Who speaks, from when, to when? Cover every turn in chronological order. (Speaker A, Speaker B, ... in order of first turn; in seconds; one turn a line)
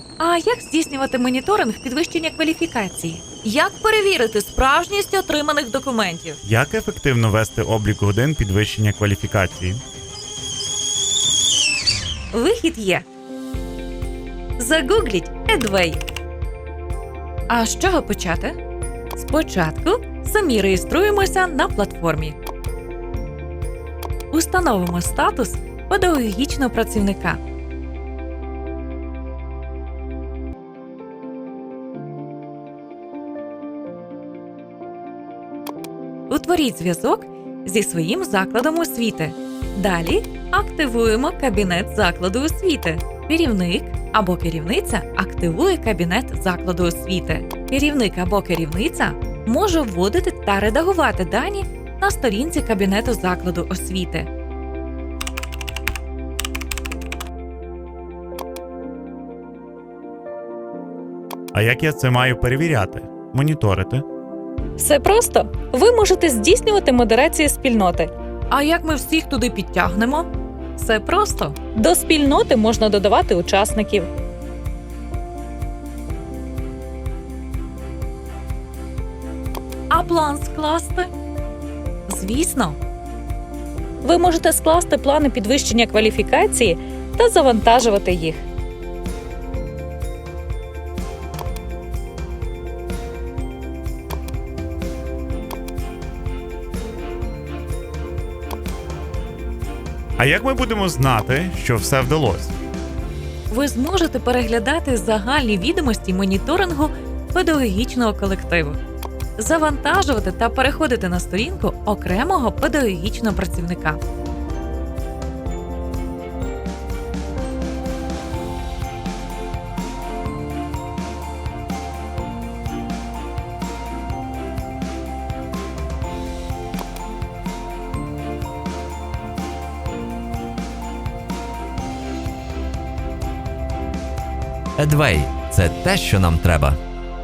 Speaker A: 0.2-6.4
Speaker B: 6.4-9.8
Speaker A: 12.3-13.0
Speaker A: 14.6-16.0
Speaker A: 17.5-18.6
Speaker A: 19.1-22.4
Speaker A: 24.3-27.4
Speaker A: 36.3-54.3
Speaker B: 61.5-64.0
Speaker C: 64.8-68.1
Speaker A: 64.8-65.7
Speaker A: 68.5-71.6
Speaker C: 71.8-74.0
Speaker A: 79.9-81.1
Speaker A: 82.1-82.8
Speaker C: 84.0-88.4
Speaker B: 100.2-102.5
Speaker A: 103.5-108.8
Speaker A: 109.4-114.0
Speaker D: 134.8-136.8